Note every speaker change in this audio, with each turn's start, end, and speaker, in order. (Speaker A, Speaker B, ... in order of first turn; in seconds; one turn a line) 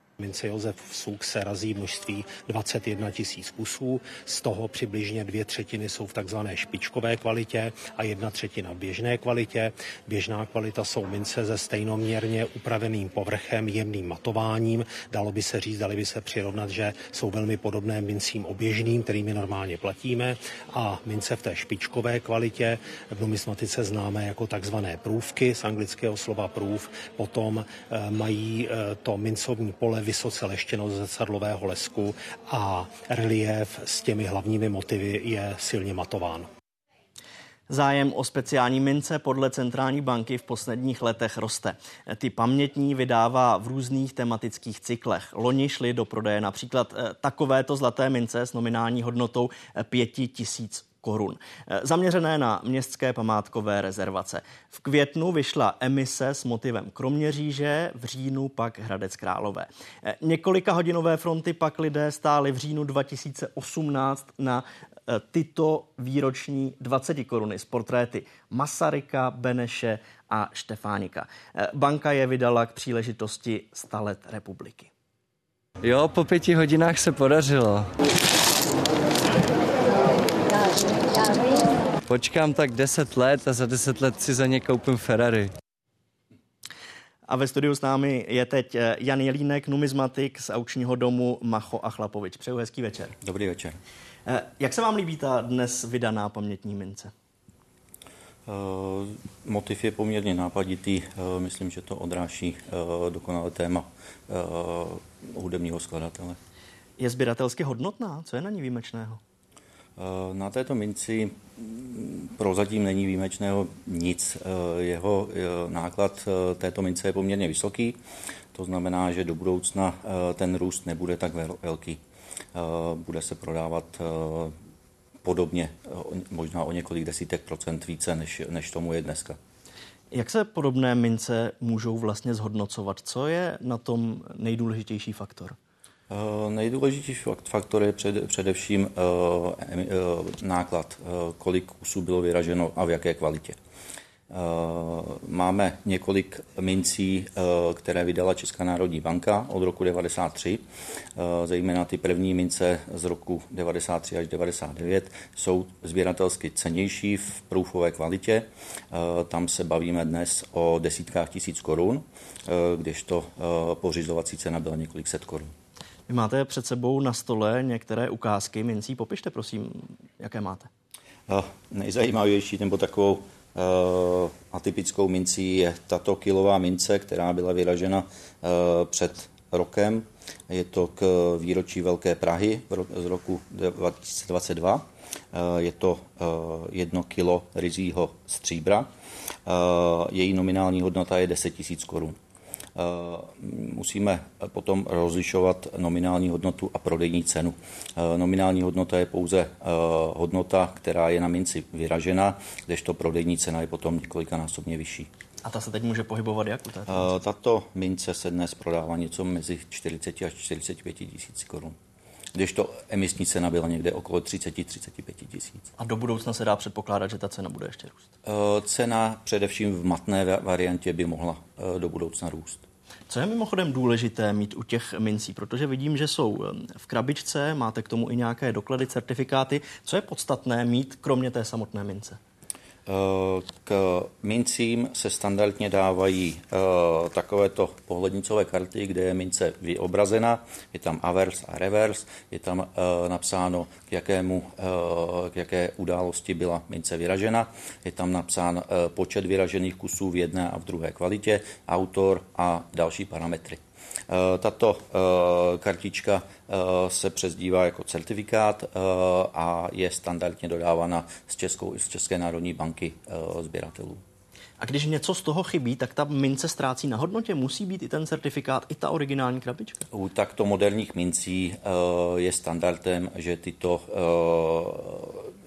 Speaker A: 0.2-36.4
Speaker B: 0.8-9.4
Speaker B: 10.4-20.3
Speaker B: 21.1-22.6
Speaker B: 23.4-27.6
Speaker B: 28.2-32.1
Speaker B: 32.7-36.4
Speaker C: 37.7-74.9
Speaker B: 75.9-77.8
Speaker B: 82.1-85.5
Speaker C: 87.3-93.1
Speaker D: 93.2-93.8
Speaker C: 94.3-97.1
Speaker D: 98.5-106.4
Speaker C: 107.0-109.2
Speaker D: 110.0-118.0
Speaker D: 118.5-122.0
Speaker D: 122.5-124.5
Speaker D: 125.2-129.4
Speaker C: 130.1-135.6
Speaker D: 136.1-143.6
Speaker D: 144.3-165.5
Speaker C: 166.1-170.7
Speaker D: 171.3-188.9
Speaker D: 189.4-192.2
Speaker D: 192.8-205.1
Speaker C: 205.4-207.1
Speaker D: 206.9-211.8
Speaker D: 212.3-215.7
Speaker C: 215.8-218.1
Speaker D: 218.2-222.6
Speaker C: 223.1-232.2
Speaker D: 232.9-264.0
Speaker C: 264.6-269.8
Speaker D: 269.9-275.3